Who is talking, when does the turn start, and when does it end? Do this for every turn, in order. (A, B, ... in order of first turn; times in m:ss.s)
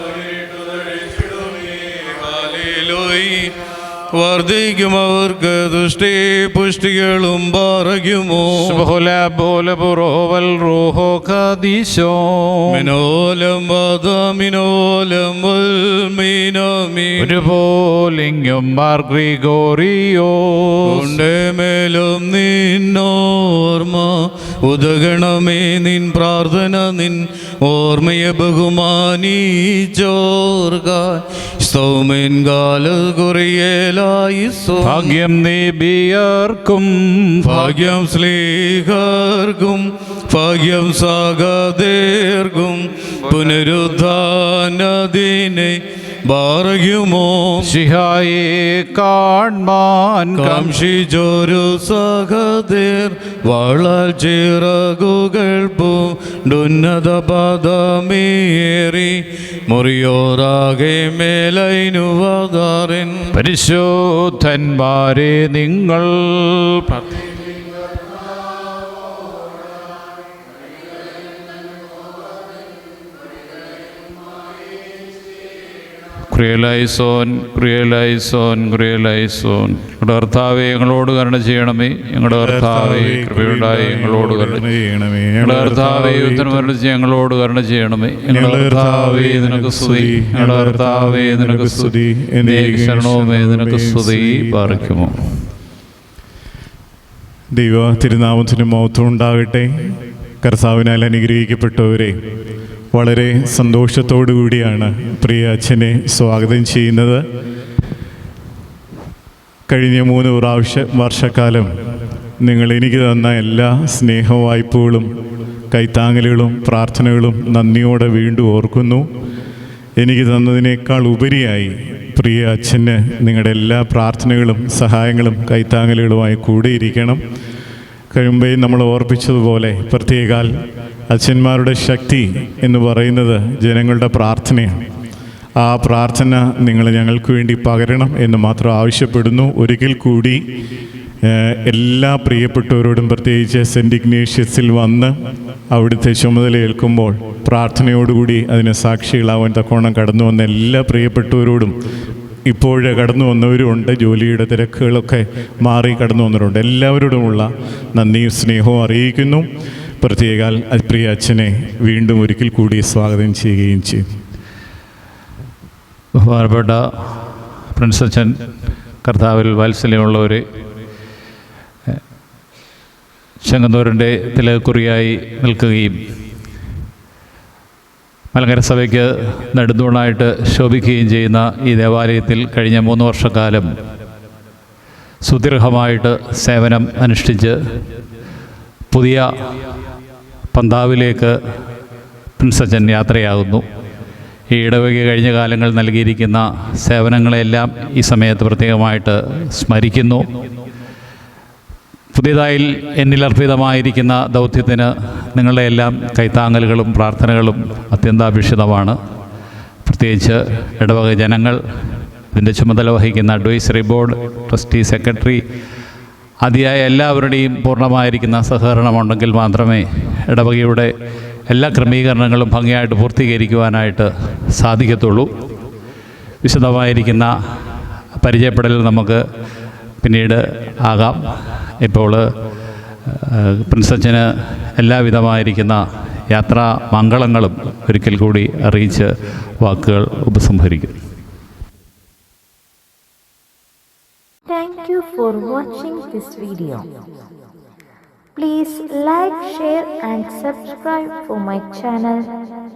0:00.2-0:08.9 A
0:08.5-0:12.9 B
0:12.7-0:17.4 A
0:17.2-0:21.2 B
0:20.8-0:35.2 A
0:34.8-0:37.8 B
0:37.4-0:47.8 A
0:43.3-0:43.7 B
0:47.6-0:50.8 B
0:50.3-1:03.4 A
1:03.3-1:07.3 B
1:16.3-1:24.6 B
1:22.3-1:26.7 C
1:25.4-1:35.5 B
1:28.3-1:35.0 C
1:37.5-1:42.2 C
1:42.9-1:47.2 C
1:49.7-1:51.7 C
1:52.4-1:55.1 C
1:55.7-1:59.1 C
2:00.0-2:07.2 C
2:08.1-2:10.5 C
2:11.1-2:14.8 C
2:15.6-2:20.4 C
2:21.2-2:25.1 C
2:25.7-2:31.8 C
2:32.5-2:39.5 C
2:40.0-2:44.1 C
2:46.2-2:48.4 B
2:49.0-2:50.4 B
2:53.4-2:56.0 B
2:58.3-3:03.7 B
3:05.2-3:07.6 B
3:08.9-3:09.6 B
3:10.5-3:11.4 B
3:12.4-3:13.6 B
3:14.5-3:20.3 B
3:22.1-3:29.0 B
3:29.8-3:35.4 B
3:36.4-3:40.9 B
3:41.5-3:45.3 B
3:46.4-3:49.2 B
3:50.0-3:52.2 B
3:53.1-4:01.0 B
4:04.5-4:06.9 D
4:08.4-4:12.3 D